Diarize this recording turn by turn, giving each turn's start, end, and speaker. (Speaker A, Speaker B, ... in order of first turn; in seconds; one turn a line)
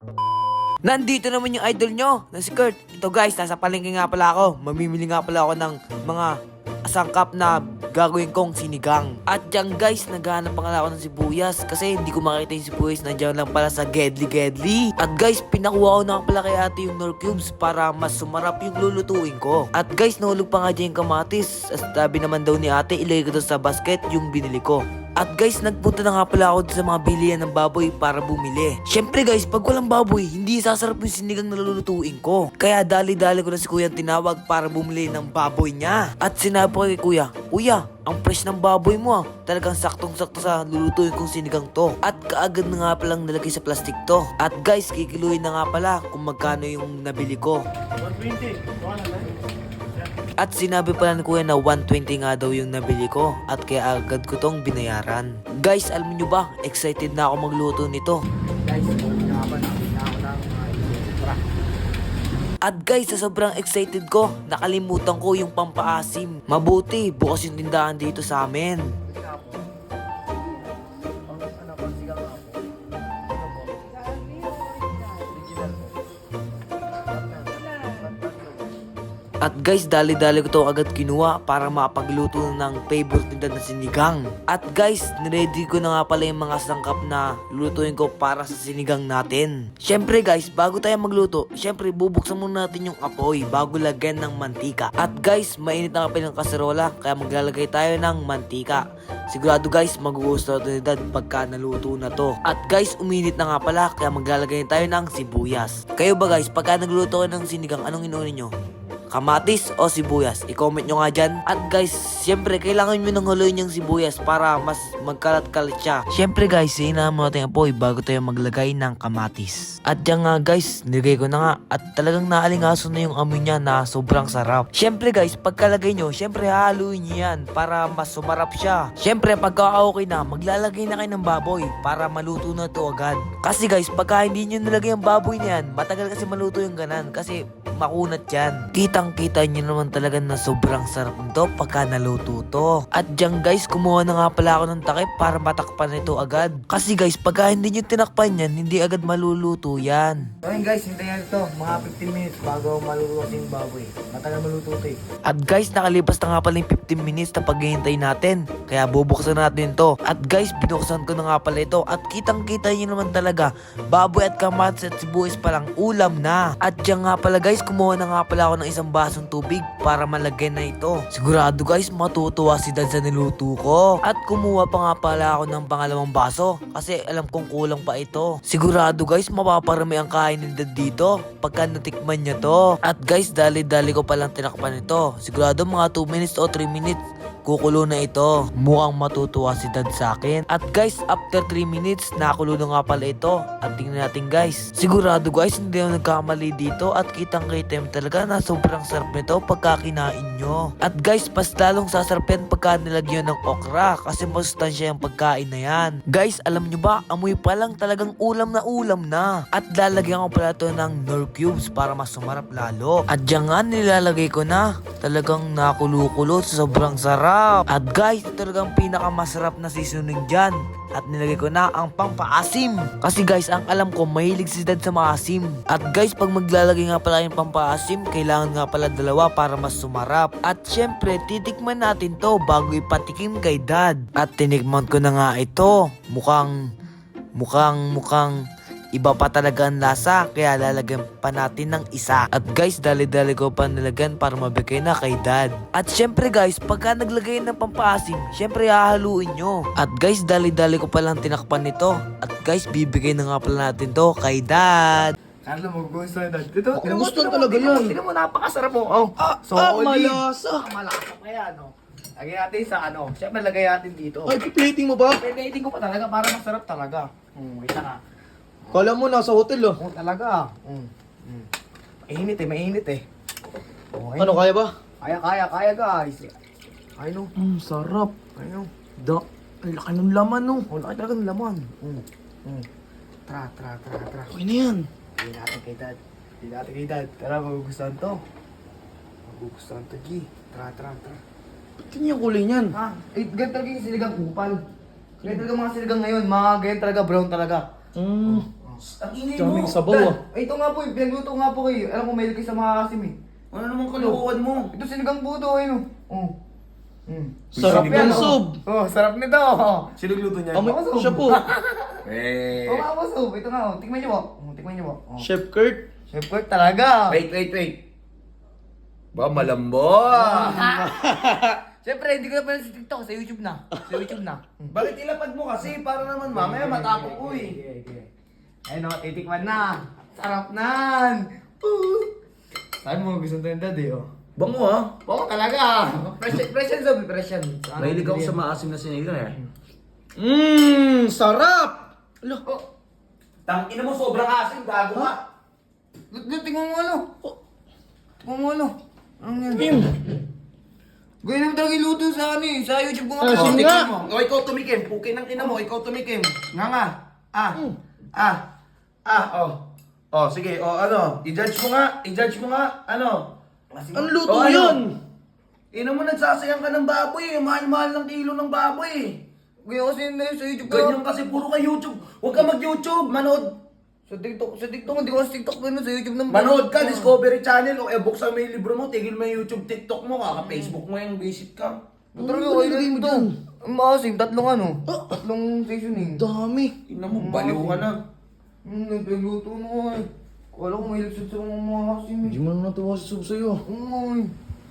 Speaker A: 0.8-47.6
Speaker B: 48.0-49.3
Speaker A: 50.4-58.2
Speaker C: 58.6-61.4
Speaker A: 62.6-68.8
Speaker C: 69.1-69.7
Speaker C: 71.3-72.6
Speaker C: 73.3-76.0
Speaker C: 77.1-78.7
Speaker A: 79.4-108.5
Speaker A: 109.1-150.3
Speaker C: 150.4-155.0
Speaker A: 155.2-236.5
Speaker A: 237.3-238.4
Speaker A: 238.9-255.2
Speaker C: 255.4-264.4
Speaker D: 256.7-257.9
Speaker D: 259.2-260.6
Speaker D: 264.2-265.2
Speaker C: 265.1-268.0
Speaker D: 268.7-269.8
Speaker C: 269.8-271.5
Speaker C: 272.1-273.1
Speaker C: 273.9-274.4
Speaker D: 274.2-274.7
Speaker C: 275.0-276.3
Speaker C: 277.0-277.3
Speaker D: 277.4-278.1
Speaker C: 278.4-278.7
Speaker D: 279.6-280.3
Speaker B: 280.2-280.6
Speaker C: 280.7-282.6
Speaker C: 283.3-284.3
Speaker D: 284.3-284.9
Speaker C: 285.2-288.2
Speaker C: 289.2-291.2
Speaker D: 291.8-292.8
Speaker C: 292.7-294.6
Speaker C: 295.2-297.7
Speaker D: 297.9-298.4
Speaker C: 298.3-298.8
Speaker B: 298.8-299.8
Speaker D: 299.3-300.2
Speaker C: 299.9-303.1
Speaker B: 303.5-304.7
Speaker C: 303.9-306.3
Speaker C: 307.1-309.9
Speaker B: 307.5-308.4
Speaker D: 307.6-308.6
Speaker B: 310.0-310.7
Speaker D: 310.5-311.4
Speaker C: 310.6-312.0
Speaker B: 312.1-312.9
Speaker C: 312.6-315.3
Speaker D: 315.2-315.8
Speaker C: 316.1-317.2
Speaker B: 317.1-317.8
Speaker B: 319.1-320.8
Speaker C: 320.1-324.8
Speaker D: 321.0-321.3
Speaker B: 324.7-327.6
Speaker C: 326.3-328.1
Speaker C: 328.7-332.1
Speaker C: 332.8-334.1
Speaker B: 334.4-334.9
Speaker C: 335.1-338.4
Speaker B: 337.8-339.4
Speaker B: 340.2-341.1
Speaker D: 341.0-342.4
Speaker B: 343.4-345.2
Speaker C: 346.1-347.1
Speaker C: 348.2-349.9
Speaker D: 349.5-349.9
Speaker C: 351.2-353.8
Speaker D: 353.2-353.9
Speaker B: 353.2-357.6
Speaker B: 358.1-358.4
Speaker B: 359.1-359.6
Speaker B: 360.1-363.3
Speaker C: 363.7-364.2
Speaker D: 363.9-364.9
Speaker B: 364.2-364.9
Speaker B: 365.7-369.2
Speaker C: 369.6-371.0
Speaker B: 370.6-373.6
Speaker C: 374.1-377.1
Speaker B: 376.3-381.8
Speaker C: 380.4-380.8
Speaker C: 382.1-386.3
Speaker D: 382.2-383.3
Speaker D: 384.9-385.2
Speaker D: 386.0-386.8
Speaker B: 386.8-388.0
Speaker C: 387.1-387.9
Speaker C: 388.6-392.4
Speaker D: 392.2-393.6
Speaker C: 393.6-394.3